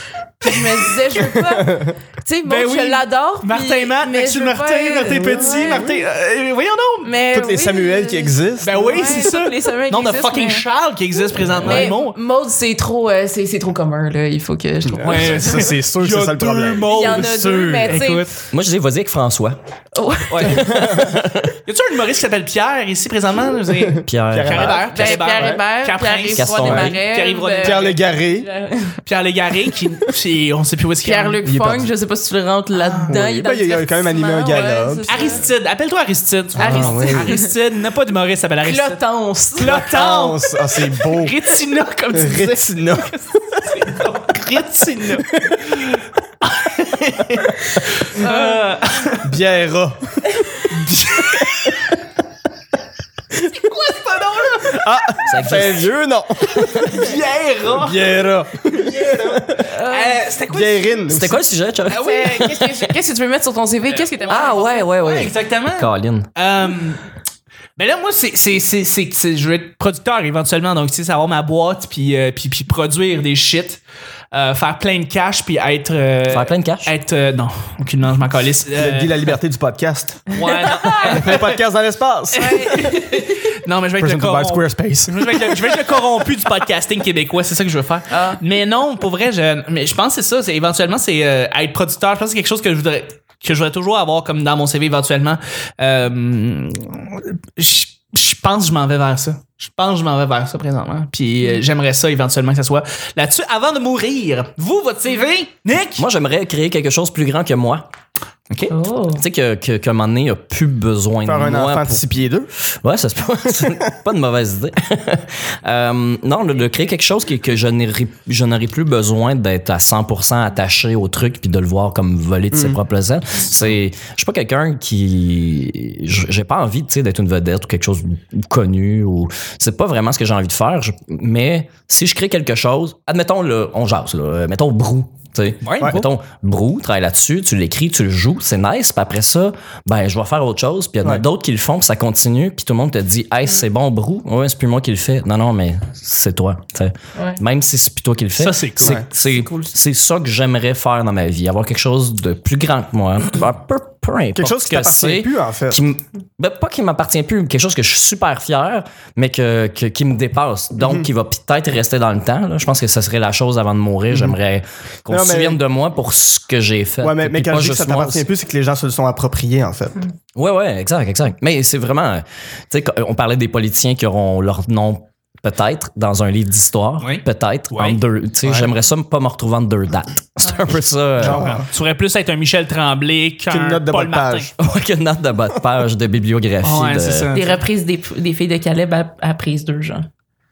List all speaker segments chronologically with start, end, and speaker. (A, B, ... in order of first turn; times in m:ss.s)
0:00.4-0:05.9 A
0:01.5-0:02.0 B
0:02.4-0:07.2 C
0:05.1-0:05.9 B
0:07.0-0:10.6 A
0:07.3-0:08.9 B
0:08.6-0:12.2 C
0:11.4-0:15.4 A
0:14.8-0:18.0 B
0:15.0-0:18.4 C
0:16.8-0:18.3 A
0:18.5-0:19.6 D
0:19.9-0:20.6 A
0:20.3-0:20.6 C
0:20.4-0:21.5 D
0:20.5-0:21.2 B
0:21.6-0:28.0 C
0:23.7-0:25.6 B
0:24.0-0:24.8 D
0:24.8-0:29.0 A
0:26.3-0:26.9 D
0:27.6-0:28.5 B
0:29.0-0:31.4 C
0:31.0-0:35.4 A
0:31.4-0:31.9 B
0:32.8-0:33.1 C
0:33.1-0:35.1 B
0:35.1-0:39.0 C
0:36.6-0:37.3 B
0:36.6-0:37.5 A
0:38.6-0:39.8 A
0:39.6-0:49.2 C
0:39.6-0:41.4 B
0:42.1-0:43.1 B
0:48.2-0:48.5 A
0:49.2-0:50.3 B
0:50.7-0:51.9 C
0:53.5-0:54.9 C
0:54.6-0:57.1 B
0:55.2-0:55.8 D
0:56.6-0:58.0 C
0:57.8-0:59.7 B
0:58.7-1:01.1 C
0:59.6-1:00.2 A
1:00.5-1:01.4 B
1:01.1-1:02.9 D
1:01.9-1:02.4 C
1:01.9-1:04.9 A
1:03.9-1:07.0 C
1:04.3-1:06.3 D
1:07.8-1:13.8 C
1:14.3-1:19.3 C
1:16.3-1:16.9 D
1:18.8-1:20.3 B
1:20.3-1:21.6 C
1:20.5-1:21.2 A
1:21.0-1:22.8 B
1:22.4-1:23.2 A
1:22.4-1:46.0 C
1:24.0-1:25.3 B
1:28.1-1:28.4 A
1:46.0-1:47.8 D
1:48.7-1:49.2 A
1:49.2-1:52.1 D
1:51.2-1:52.5 B
1:52.8-2:48.2 D
2:02.5-2:02.8 B
2:15.6-2:16.1 C
2:27.2-2:27.4 A
2:28.4-2:29.0 C
2:28.8-2:29.1 B
2:34.3-2:35.8 B
2:44.1-2:44.4 B
2:45.1-2:45.6 B
2:47.0-2:50.1 B
2:50.3-3:01.4 D
2:57.0-2:58.0 C
2:58.4-2:58.7 B
3:01.2-3:04.5 C
3:01.2-3:01.6 B
3:03.5-3:04.5 B
3:04.6-3:07.3 D
3:06.6-3:07.6 C
3:07.3-3:10.1 A